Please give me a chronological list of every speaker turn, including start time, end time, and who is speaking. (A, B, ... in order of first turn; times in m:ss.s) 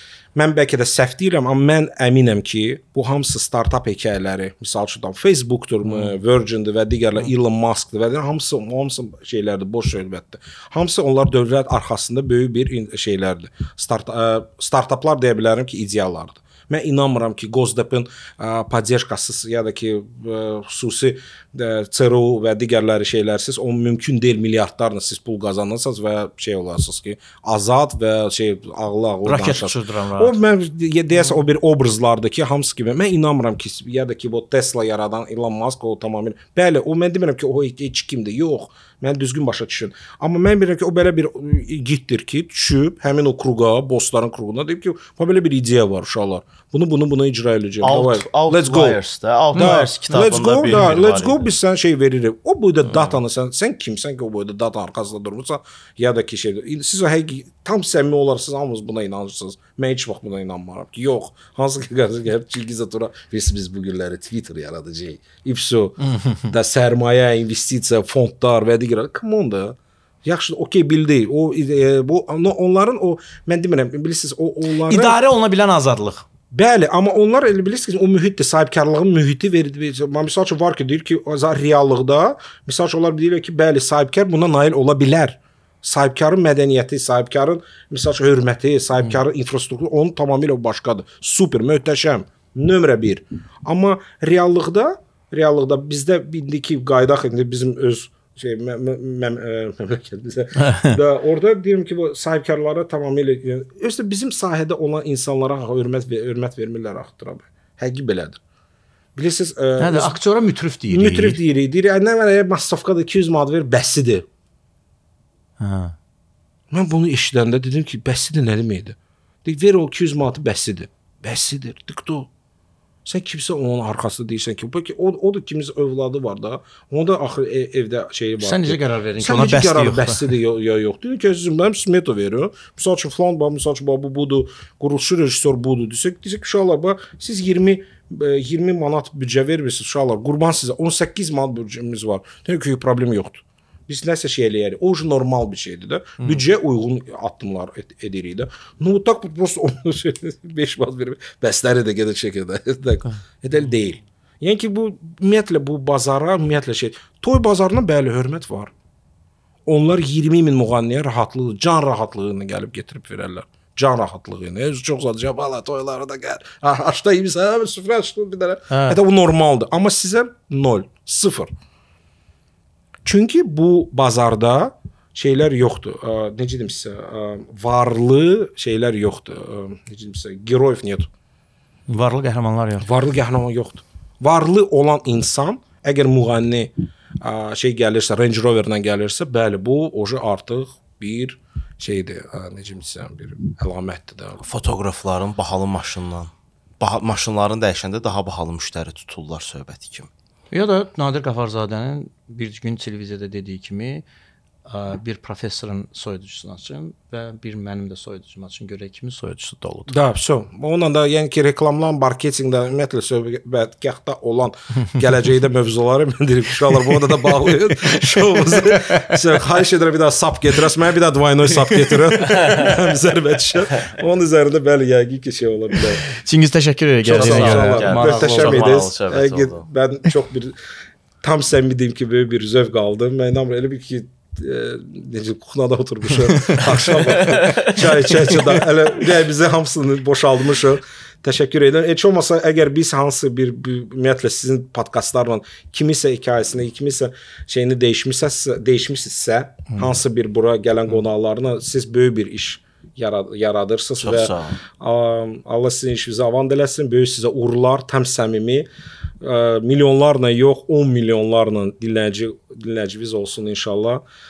0:00.4-0:49.0 A
0:05.9-0:06.2 B
0:29.2-0:30.4 B
0:47.8-0:51.5 C
0:49.5-1:15.2 A
0:49.6-0:50.1 B
1:06.0-1:06.5 B
1:14.9-1:16.2 B
1:16.5-1:48.4 A
1:40.6-1:41.0 B
1:49.2-1:50.2 A
1:49.8-1:51.4 B
1:50.9-1:54.2 A
1:55.6-1:56.0 B
1:56.7-2:02.3 A
2:03.0-2:38.7 A
2:08.4-2:10.3 B
2:26.2-2:26.4 B
2:39.7-2:51.5 A
2:48.7-2:49.0 B
2:53.0-3:01.1 A
3:01.9-3:02.9 B
3:02.8-3:14.4 A
3:14.4-3:20.1 C
3:20.5-3:24.0 B
3:24.7-3:30.0 B
3:29.9-3:46.0 A
3:42.2-3:42.7 B
3:46.1-3:48.8 B
3:47.1-3:49.7 C
3:47.1-3:50.6 A
3:51.2-4:18.7 A
3:57.3-3:57.7 C
4:14.0-4:14.6 C
4:19.2-4:24.0 A